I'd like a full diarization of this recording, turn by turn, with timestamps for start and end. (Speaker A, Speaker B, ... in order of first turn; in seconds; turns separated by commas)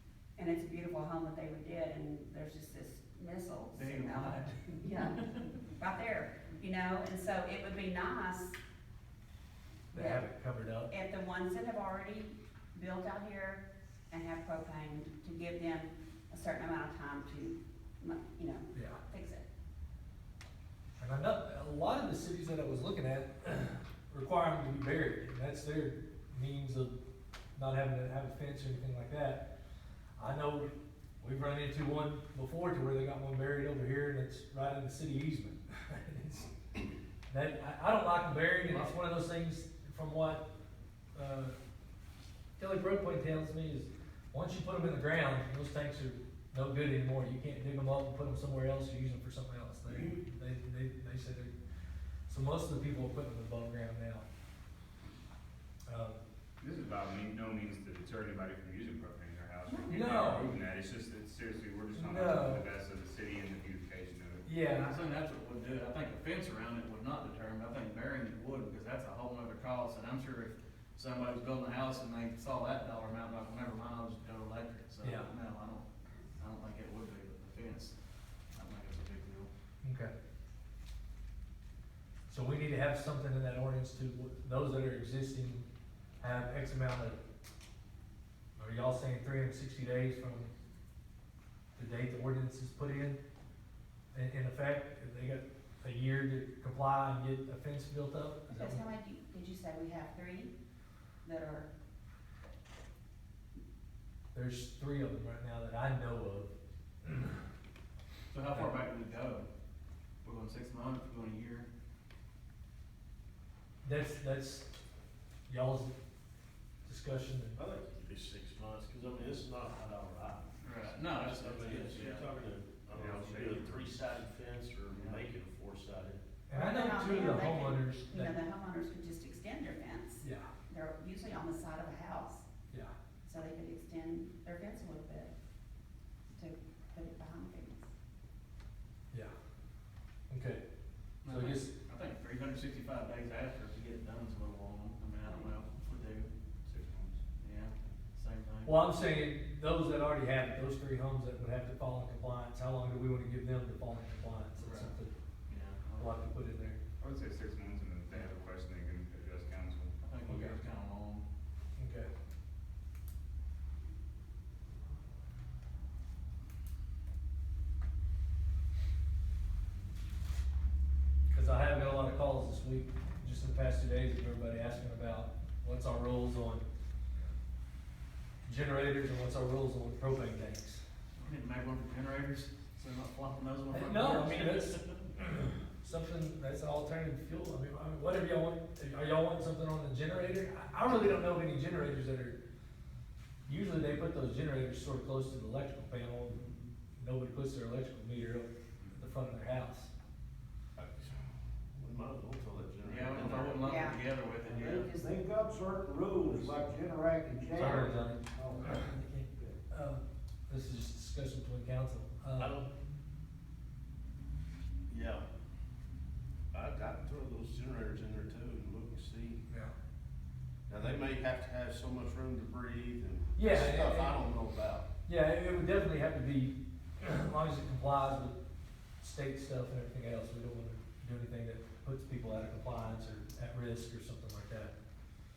Speaker A: 0.3-8.6, Speaker B: 3.7-5.5, Speaker C: 9.9-10.9, Speaker A: 9.9-10.2, Speaker A: 10.9-19.4, Speaker C: 18.7-19.0, Speaker C: 21.0-26.9, Speaker C: 27.6-29.5, Speaker C: 30.2-36.5, Speaker C: 37.3-40.5, Speaker C: 41.1-41.5, Speaker C: 42.6-51.5, Speaker D: 49.9-50.2, Speaker C: 52.3-54.2, Speaker C: 55.9-56.2, Speaker E: 56.6-64.5, Speaker A: 59.7-60.2, Speaker C: 59.9-60.5, Speaker C: 61.9-62.6, Speaker C: 64.4-64.9, Speaker B: 64.8-75.9, Speaker C: 75.0-75.3, Speaker B: 76.4-77.9, Speaker B: 78.5-79.5, Speaker C: 79.8-80.1, Speaker C: 82.3-85.6, Speaker C: 86.2-87.2, Speaker C: 88.5-90.5, Speaker C: 91.8-93.2, Speaker C: 94.1-98.8, Speaker A: 98.5-100.5, Speaker A: 101.2-101.7, Speaker C: 104.3-107.4, Speaker B: 108.3-109.5, Speaker B: 110.2-111.7, Speaker C: 113.8-114.7, Speaker C: 115.5-116.0, Speaker C: 116.8-117.6, Speaker D: 117.5-120.5, Speaker B: 120.6-122.3, Speaker D: 121.1-126.2, Speaker E: 122.9-123.8, Speaker B: 124.9-125.2, Speaker C: 126.5-128.3, Speaker A: 126.5-132.5, Speaker C: 130.2-130.5, Speaker A: 133.2-135.3, Speaker A: 136.3-137.9, Speaker C: 140.3-140.6, Speaker B: 141.2-146.3, Speaker C: 141.2-141.7, Speaker E: 146.7-147.2, Speaker B: 147.4-148.8, Speaker C: 148.6-155.1, Speaker B: 154.6-154.9, Speaker B: 155.5-156.1, Speaker C: 156.0-156.8, Speaker E: 157.0-159.9, Speaker B: 160.0-161.2, Speaker C: 160.2-160.6, Speaker C: 161.8-162.1, Speaker C: 171.3-176.7, Speaker C: 178.4-180.8, Speaker B: 181.2-185.0, Speaker C: 183.7-192.4, Speaker C: 193.4-196.4, Speaker C: 197.0-199.9, Speaker D: 200.8-201.2, Speaker D: 201.7-203.9, Speaker B: 202.8-204.9, Speaker A: 203.6-205.2, Speaker F: 204.5-209.6, Speaker C: 207.5-212.6, Speaker D: 212.4-212.7, Speaker D: 214.9-215.2, Speaker D: 216.5-219.4, Speaker C: 219.5-219.7, Speaker D: 220.7-224.9, Speaker C: 223.3-224.2, Speaker C: 225.1-228.3, Speaker C: 229.0-234.7